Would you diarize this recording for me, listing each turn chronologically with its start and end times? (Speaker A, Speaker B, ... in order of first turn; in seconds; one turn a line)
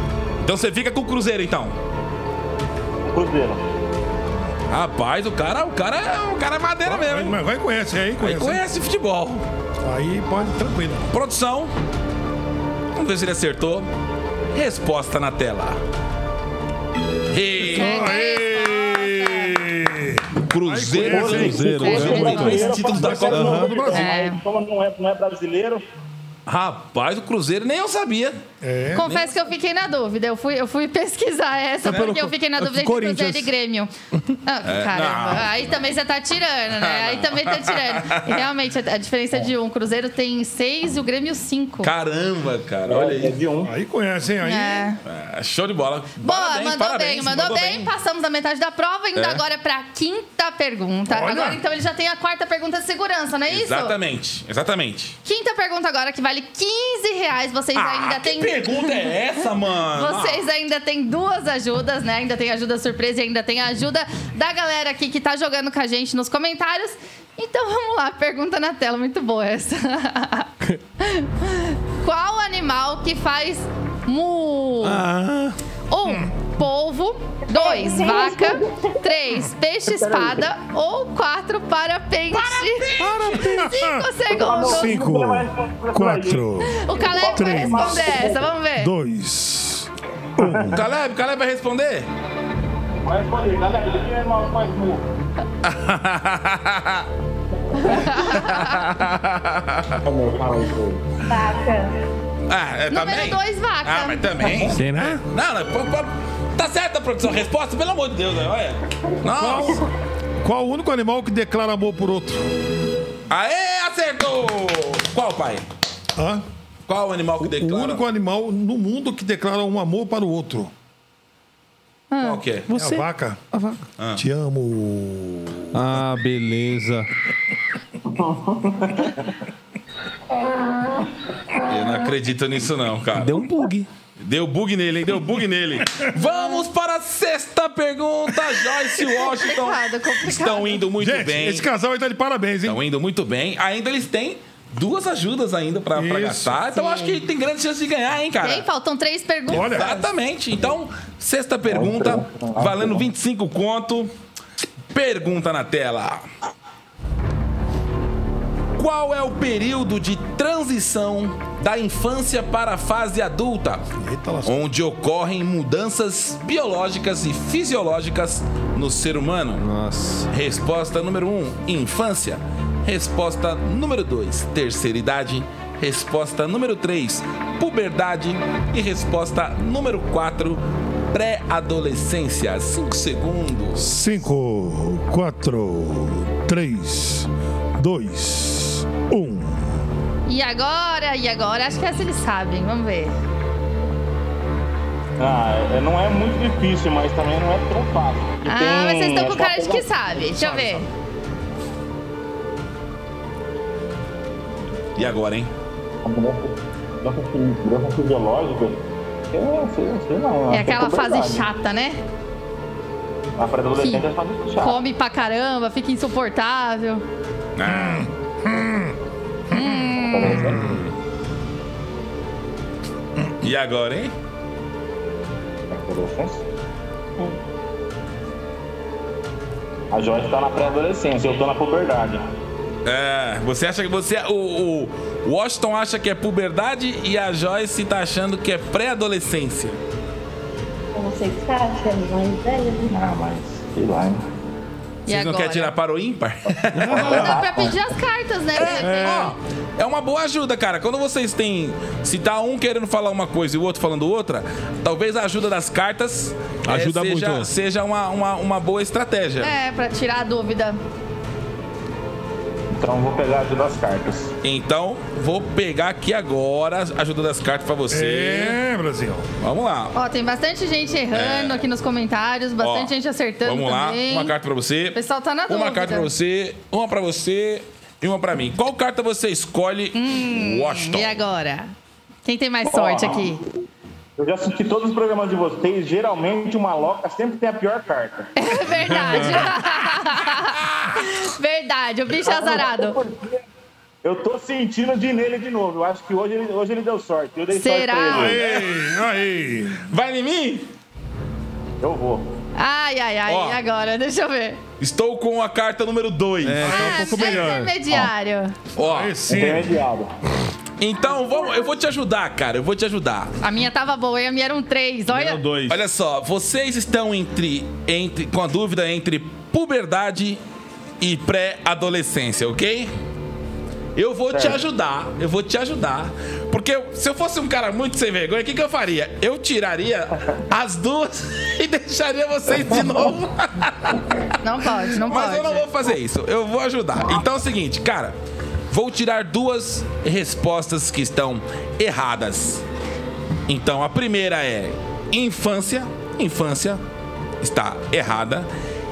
Speaker A: 0.4-1.8
Speaker B: 3.0-3.6
Speaker A: 4.7-7.4
Speaker C: 6.8-8.6
Speaker A: 8.2-9.4
Speaker C: 9.8-11.1
Speaker A: 11.1-11.7
Speaker A: 12.9-13.9
Speaker A: 14.5-15.8
Speaker A: 17.3-18.1
Speaker C: 17.6-24.1
Speaker D: 17.7-19.6
Speaker A: 20.4-23.7
Speaker B: 21.0-25.8
Speaker E: 21.1-22.7
Speaker D: 21.8-22.7
Speaker E: 23.3-23.7
Speaker D: 23.9-24.4
Speaker A: 26.4-28.4
Speaker C: 28.6-29.1
Speaker D: 28.9-33.9
Speaker A: 29.0-29.3
Speaker E: 31.9-33.5
Speaker D: 34.4-41.9
Speaker A: 34.6-35.6
Speaker A: 36.7-38.5
Speaker A: 41.8-43.4
Speaker B: 42.9-43.7
Speaker C: 43.6-44.9
Speaker D: 44.4-45.0
Speaker A: 45.0-47.9
Speaker D: 46.2-54.0
Speaker A: 49.1-49.4
Speaker C: 51.1-51.6
Speaker A: 53.5-55.2
Speaker D: 55.2-59.1
Speaker A: 57.7-60.4
Speaker D: 59.9-75.0
Speaker E: 74.8-75.6
Speaker D: 75.9-85.0
Speaker F: 77.5-79.0
Speaker B: 79.9-80.4
Speaker E: 83.0-83.7
Speaker A: 83.0-83.3
Speaker C: 83.4-90.8
Speaker B: 84.3-88.5
Speaker D: 86.6-88.9
Speaker B: 90.4-90.7
Speaker A: 90.7-92.1
Speaker B: 93.0-95.0
Speaker A: 95.6-97.1
Speaker D: 97.8-98.8
Speaker A: 98.2-100.0
Speaker B: 100.0-101.2
Speaker F: 101.3-102.0
Speaker A: 102.5-109.8
Speaker D: 102.9-104.7
Speaker E: 104.6-105.2
Speaker C: 109.3-109.8
Speaker C: 110.4-112.5
Speaker A: 113.3-115.6
Speaker C: 116.2-116.4
Speaker A: 116.9-118.0
Speaker C: 117.4-120.7
Speaker D: 122.1-122.4
Speaker A: 122.2-122.7
Speaker E: 122.7-123.8
Speaker C: 122.7-123.5
Speaker A: 124.0-124.2
Speaker C: 124.1-125.6
Speaker E: 125.7-127.1
Speaker B: 128.1-129.3
Speaker A: 131.7-133.4
Speaker E: 133.1-133.9
Speaker A: 134.2-141.7
Speaker D: 139.2-140.8
Speaker C: 141.0-142.8
Speaker A: 142.7-148.7
Speaker C: 145.9-146.6
Speaker D: 146.7-147.2
Speaker D: 148.4-150.1
Speaker C: 149.5-149.9
Speaker A: 149.5-154.1
Speaker B: 151.7-153.1
Speaker A: 154.9-156.3
Speaker A: 158.8-163.8
Speaker C: 164.0-164.6
Speaker A: 164.4-169.6
Speaker E: 169.6-170.3
Speaker A: 170.3-183.8
Speaker C: 183.8-189.8
Speaker D: 190.3-193.2
Speaker B: 195.2-199.9
Speaker D: 198.4-200.9
Speaker A: 204.9-205.5
Speaker B: 206.0-211.5
Speaker D: 210.5-212.0
Speaker B: 213.4-214.8
Speaker D: 213.8-214.1
Speaker D: 214.6-217.0
Speaker A: 217.6-218.1
Speaker C: 217.7-218.9
Speaker D: 219.5-220.5
Speaker C: 219.5-219.8
Speaker B: 219.9-220.7
Speaker C: 220.4-220.8
Speaker A: 223.4-224.1
Speaker B: 225.7-226.4
Speaker B: 229.9-232.3
Speaker A: 232.8-239.8
Speaker F: 240.9-243.0
Speaker B: 242.9-244.2
Speaker D: 245.1-245.7
Speaker A: 245.1-247.3
Speaker E: 246.7-247.4
Speaker B: 246.9-247.7
Speaker D: 246.9-249.3
Speaker A: 248.6-259.5
Speaker E: 248.7-249.3
Speaker E: 256.6-257.5
Speaker D: 259.4-260.8
Speaker B: 262.7-264.3
Speaker A: 264.4-268.6
Speaker C: 267.9-269.3
Speaker A: 269.4-269.9
Speaker D: 269.9-274.3
Speaker A: 271.1-271.6
Speaker A: 272.6-281.2
Speaker D: 274.9-276.1
Speaker D: 279.9-281.7
Speaker D: 282.2-283.4
Speaker B: 282.7-283.4
Speaker B: 284.2-288.3
Speaker D: 288.4-293.0
Speaker B: 292.2-293.4
Speaker B: 294.0-298.4
Speaker D: 297.5-298.4
Speaker C: 298.1-299.9
Speaker A: 299.9-300.7
Speaker B: 301.8-302.3
Speaker D: 302.6-304.6
Speaker A: 303.3-303.6
Speaker A: 304.8-306.9
Speaker E: 306.4-308.1
Speaker D: 306.6-308.5
Speaker C: 306.7-307.6
Speaker A: 308.8-309.2
Speaker C: 308.8-309.8
Speaker B: 309.3-310.1
Speaker A: 310.8-313.3
Speaker D: 313.4-315.4
Speaker E: 315.1-315.8
Speaker A: 315.7-320.4
Speaker A: 321.0-322.9
Speaker A: 323.9-334.1
Speaker B: 324.3-324.6
Speaker D: 334.4-335.6
Speaker A: 334.9-338.1
Speaker A: 338.7-342.6
Speaker A: 343.5-346.8
Speaker A: 347.4-348.5